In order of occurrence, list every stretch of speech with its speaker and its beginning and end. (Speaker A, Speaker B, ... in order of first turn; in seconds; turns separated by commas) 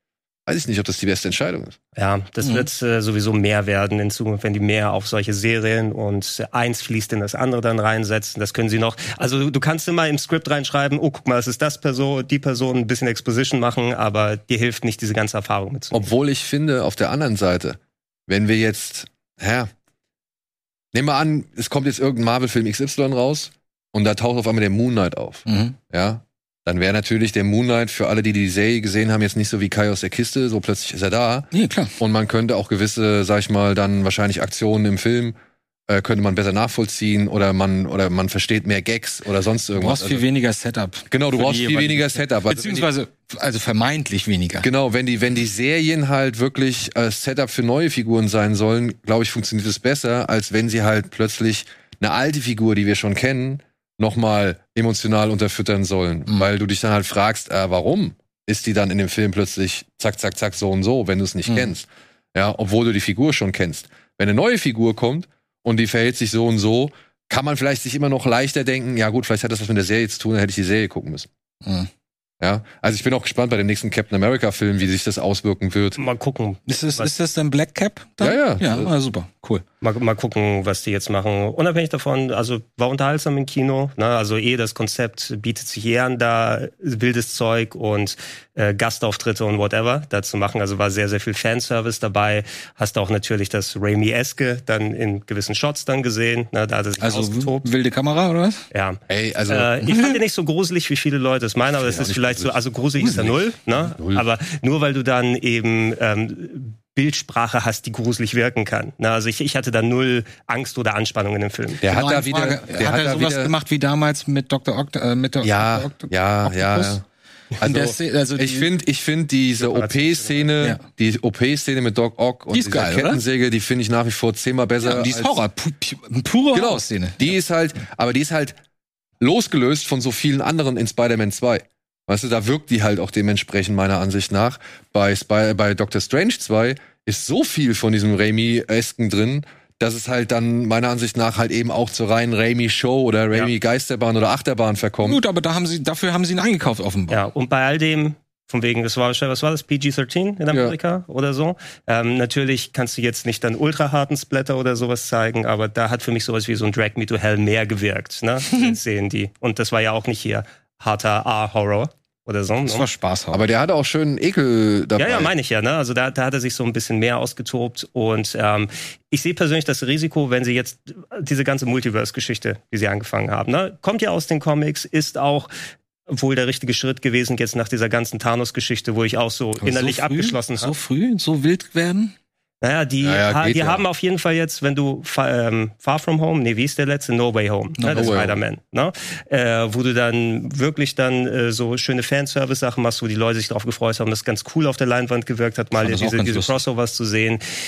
Speaker A: 0.5-1.8, Speaker B: 1.9-16.1, Speaker C: 2.4-2.7, Speaker A: 15.9-19.7, Speaker A: 20.9-35.4, Speaker C: 25.5-25.8, Speaker C: 31.5-31.9, Speaker A: 35.9-40.2, Speaker C: 39.7-44.7, Speaker A: 41.1-42.9, Speaker A: 44.6-71.3, Speaker C: 71.6-71.9, Speaker A: 72.4-76.0, Speaker B: 76.0-77.1, Speaker C: 76.7-79.6, Speaker A: 78.2-78.9, Speaker B: 79.8-97.7, Speaker C: 97.0-98.6, Speaker B: 98.7-111.8, Speaker A: 99.1-99.7, Speaker A: 101.8-104.2, Speaker A: 111.8-113.5, Speaker C: 111.9-117.0, Speaker A: 115.4-117.0, Speaker A: 117.6-125.4, Speaker C: 117.6-118.7, Speaker B: 119.6-120.5, Speaker C: 122.5-123.2, Speaker C: 124.8-127.3, Speaker A: 126.5-128.6, Speaker A: 129.2-145.2, Speaker C: 145.0-147.2, Speaker B: 147.1-162.9, Speaker A: 150.5-150.8, Speaker C: 162.6-163.4, Speaker A: 163.3-165.3, Speaker B: 165.0-175.5, Speaker B: 176.1-180.7, Speaker C: 179.6-182.1, Speaker B: 182.6-197.4, Speaker A: 183.0-183.8, Speaker C: 187.8-188.1, Speaker A: 187.9-188.4, Speaker C: 195.8-196.6